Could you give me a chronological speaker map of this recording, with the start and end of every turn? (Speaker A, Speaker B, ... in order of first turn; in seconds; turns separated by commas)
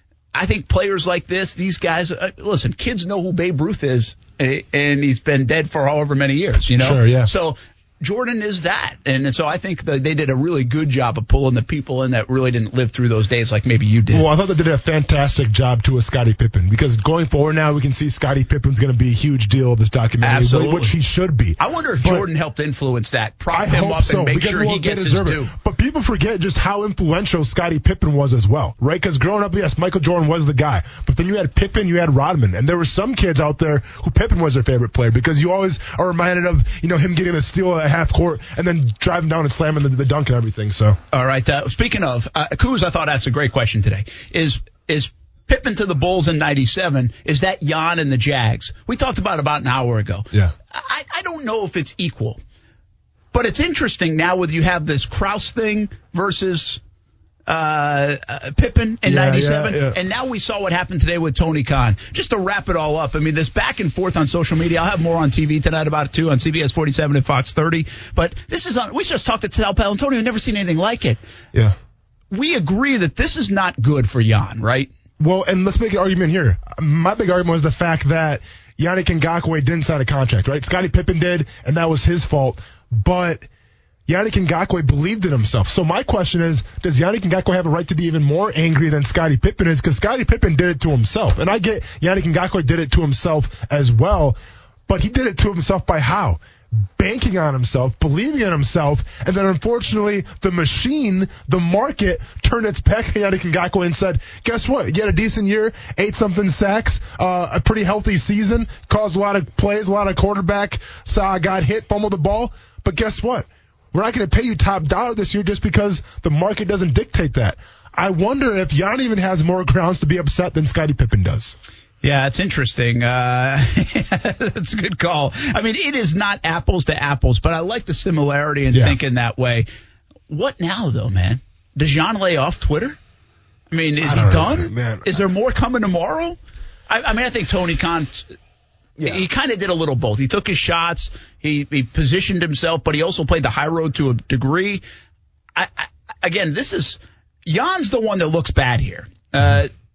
Speaker A: 0.3-14.3, Speaker B: 6.8-7.3, Speaker B: 14.1-22.3, Speaker A: 20.2-20.9, Speaker A: 21.6-25.5, Speaker B: 23.5-41.0, Speaker A: 41.1-52.4, Speaker A: 53.3-56.8, Speaker A: 57.5-71.2, Speaker B: 59.1-60.0, Speaker A: 72.3-74.9, Speaker B: 75.2-83.5, Speaker B: 84.1-121.6, Speaker A: 122.0-129.7, Speaker A: 130.3-133.0, Speaker A: 133.7-136.4, Speaker B: 134.0-135.2, Speaker A: 136.9-138.3, Speaker B: 139.0-139.2, Speaker A: 139.0-144.8, Speaker A: 145.6-149.7